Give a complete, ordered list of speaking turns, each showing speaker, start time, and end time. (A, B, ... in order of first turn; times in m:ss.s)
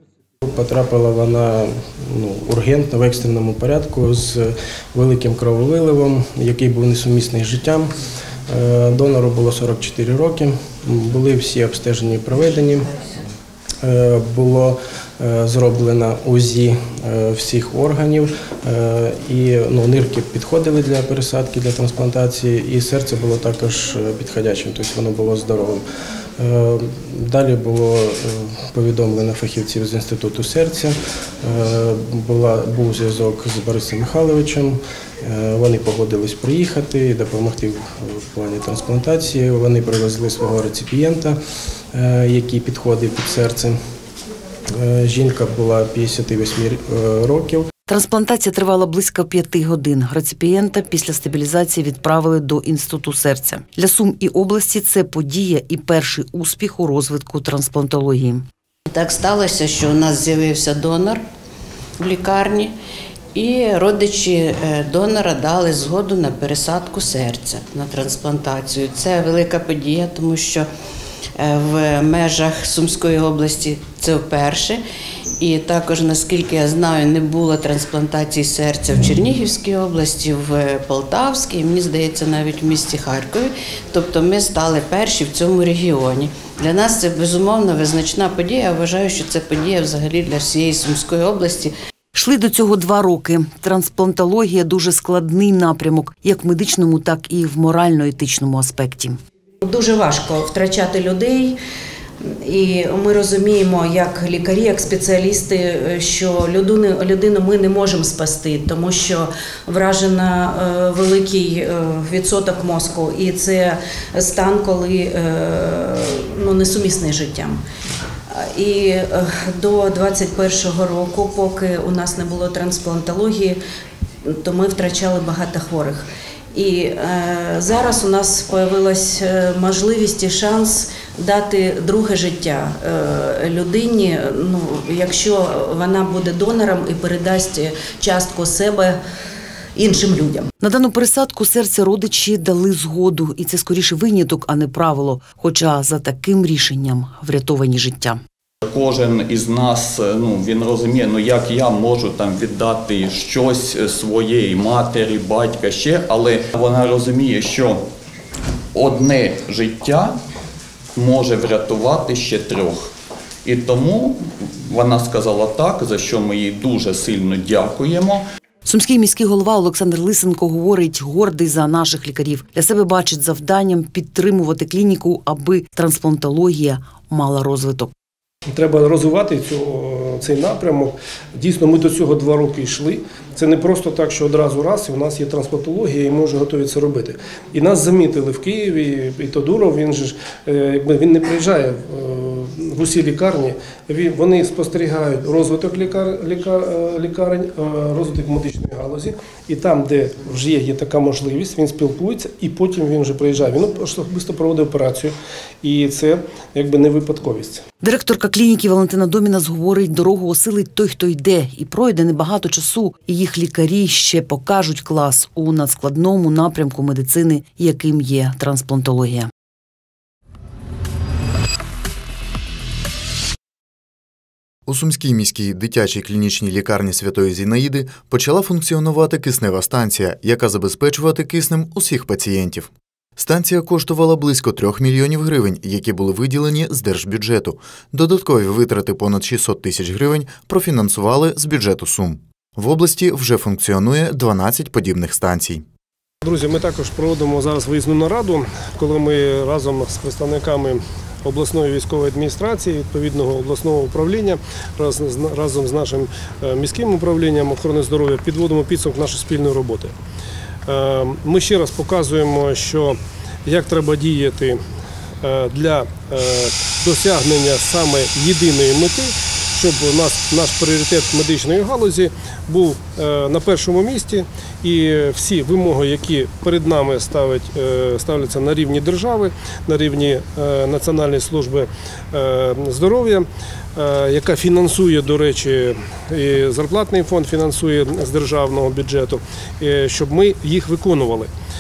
0:00.4-0:07.9 A
0:08.5-0:12.9 A
0:13.8-0:25.8 A
0:26.4-0:41.4 A
0:41.9-0:43.8 A
0:44.7-0:47.7 A
0:47.9-0:58.3 B
0:58.9-1:01.2 C
1:02.0-1:02.7 C
1:03.3-1:10.7 C
1:11.4-1:14.8 C
1:15.4-1:31.7 C
1:32.2-1:39.2 B
1:39.6-1:41.6 D
1:42.4-1:57.6 D
1:58.3-2:03.6 D
2:04.2-2:19.0 D
2:19.7-2:20.5 D
2:20.6-2:28.2 B
2:28.6-2:37.8 E
2:38.7-2:40.2 E
2:41.0-2:42.9 E
2:43.4-2:48.2 E
2:48.7-2:57.8 B
2:58.5-3:27.6 F
3:27.8-3:39.3 B
3:44.7-4:05.6 G
4:06.2-4:20.0 F
4:20.7-4:24.6 F
4:25.2-4:51.3 F